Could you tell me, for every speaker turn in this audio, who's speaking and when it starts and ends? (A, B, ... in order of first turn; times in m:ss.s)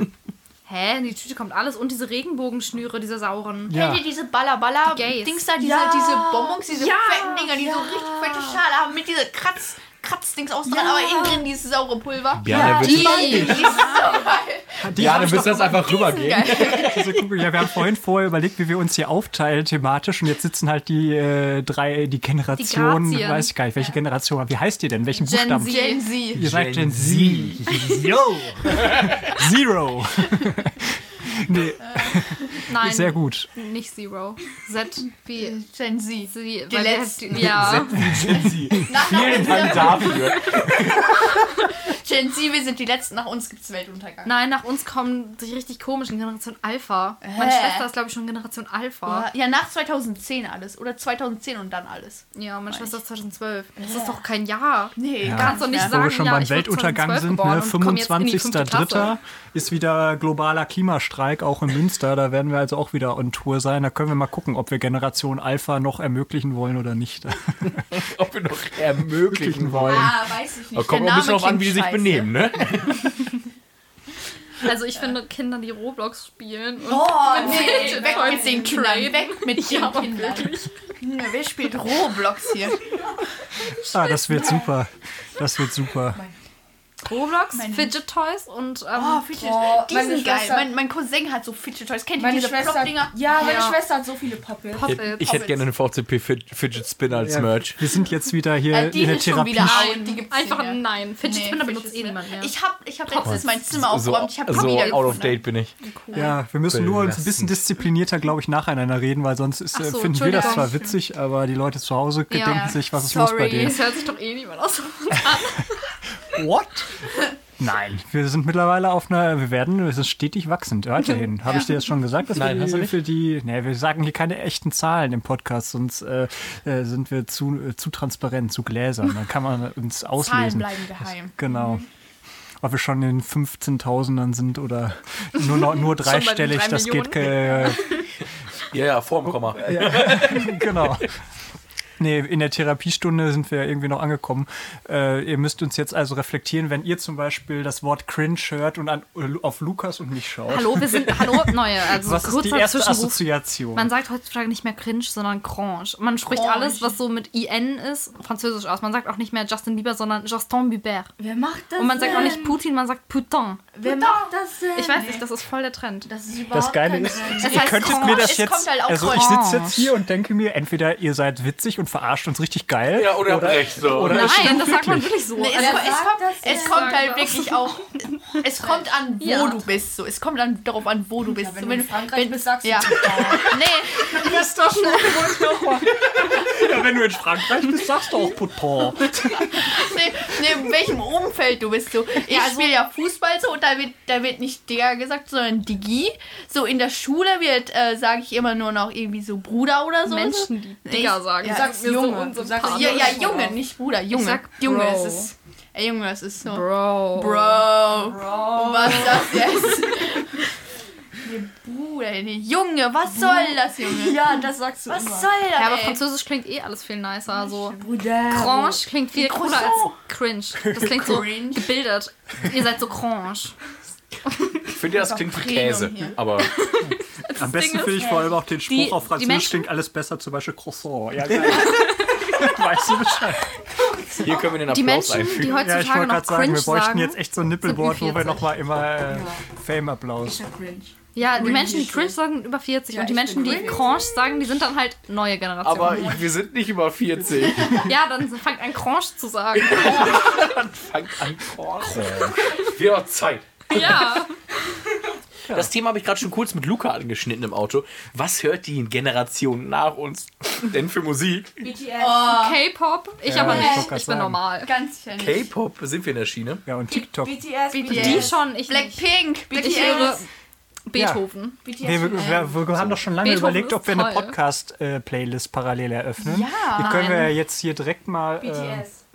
0:00.6-0:03.7 A
0:03.7-0:04.1 B
0:03.7-0:17.0 C
0:04.8-0:05.5 A
0:05.6-0:08.4 D
0:06.7-0:08.5 A
0:10.7-0:11.4 D
0:12.4-0:13.6 E
0:12.5-0:14.3 D
0:12.7-0:14.1 A
0:14.8-0:15.8 B
0:14.9-0:17.4 E
0:16.6-0:33.5 B
0:22.6-0:23.5 A
0:25.2-0:26.1 A
0:25.6-0:26.4 C
0:26.4-0:28.1 E
0:28.7-0:29.2 E
0:31.8-0:32.3 C
0:32.7-0:35.6 A
0:35.4-0:44.3 C
0:36.3-0:38.1 A
0:37.3-0:41.3 E
0:38.1-0:38.5 B
0:44.2-0:49.3 A
0:47.2-0:47.9 C
0:49.0-0:53.0 C
0:52.3-0:59.1 A
0:53.8-0:54.2 C
0:55.0-0:56.0 C
0:55.2-1:07.8 B
1:07.9-1:10.2 E
1:09.3-1:10.1 B
1:09.8-1:12.3 C
1:10.7-1:13.2 E
1:14.6-1:20.7 A
1:16.9-1:22.9 C
1:16.9-1:18.8 D
1:23.7-1:24.7 A
1:23.9-1:26.2 B
1:27.0-1:29.3 A
1:27.5-1:27.9 C
1:28.9-1:33.7 C
1:29.3-1:30.7 D
1:32.2-1:35.0 D
1:33.4-1:33.8 A
1:34.7-1:35.6 A
1:34.8-1:37.8 E
1:35.2-1:35.5 C
1:37.2-1:39.9 B
1:38.7-1:45.4 C
1:39.6-1:42.5 A
1:43.2-1:45.7 E
1:44.5-1:46.4 A
1:46.1-1:53.8 B
1:46.7-1:47.6 E
1:49.7-1:50.9 A
1:50.2-1:51.0 C
1:52.3-1:52.8 A
1:52.4-1:54.0 C
1:53.5-1:55.9 A
1:56.2-1:56.9 B
1:57.6-2:11.8 B
2:02.3-2:03.0 E
2:10.2-2:11.8 C
2:12.6-2:17.9 B
2:15.4-2:18.0 A
2:18.7-2:21.0 E
2:19.3-2:21.1 B
2:22.0-2:33.9 B
2:30.5-2:41.1 A
2:36.3-2:37.0 C
2:41.2-2:42.6 D
2:41.8-2:43.8 A
2:42.0-2:42.4 C
2:43.8-2:45.2 D
2:43.8-2:44.3 C
2:44.7-2:46.1 A
2:44.9-2:45.2 C
2:46.1-2:49.7 C
2:46.4-2:47.4 D
2:46.5-2:55.2 B
2:47.4-2:48.4 A
2:49.0-2:49.8 A
2:52.9-2:54.6 E
2:54.1-2:57.8 A
2:55.3-3:04.4 C
2:55.5-2:57.1 D
2:58.6-2:58.9 D
2:59.2-2:59.6 A
3:01.2-3:03.6 D
3:03.9-3:09.7 B
3:09.5-3:21.7 C
3:12.3-3:12.8 A
3:20.0-3:23.3 A
3:21.4-3:23.6 D
3:22.6-3:30.5 C
3:24.1-3:25.3 A
3:26.4-3:27.7 A
3:27.8-3:29.7 D
3:31.2-3:36.0 C
3:33.0-3:35.4 D
3:35.5-3:43.6 A
3:37.3-3:37.9 C
3:37.8-3:38.8 D
3:39.1-3:40.0 C
3:40.8-3:41.7 C
3:44.3-3:44.7 A
3:44.7-3:46.5 E
3:44.9-3:46.2 C
3:46.4-3:49.7 A
3:46.8-3:53.5 B
3:51.7-3:52.2 A
3:54.1-3:55.7 E
3:54.7-3:58.5 A
3:55.5-4:00.4 B
3:59.1-3:59.4 D
4:00.2-4:02.1 D
4:01.1-4:06.2 A
4:01.4-4:01.9 C
4:02.9-4:04.1 D
4:05.6-4:07.9 E
4:07.7-4:10.3 A
4:09.6-4:14.2 E
4:11.9-4:12.3 B
4:13.7-4:14.3 A
4:15.5-4:21.6 E
4:21.6-4:22.5 D
4:22.0-4:22.6 C
4:22.3-4:24.7 A
4:23.2-4:24.4 B
4:23.4-4:23.9 C
4:24.6-4:25.5 C
4:25.2-4:26.6 E
4:26.6-4:27.4 B
4:26.9-4:28.4 D
4:27.7-4:30.2 C
4:27.9-4:30.3 A
4:29.6-4:30.2 D
4:30.9-4:31.6 A
4:30.9-4:31.2 B
4:31.6-4:32.5 D
4:31.8-4:38.9 B
4:32.1-4:32.5 C
4:33.2-4:34.4 A
4:36.2-4:37.3 C
4:36.8-4:37.3 A
4:38.4-4:39.0 D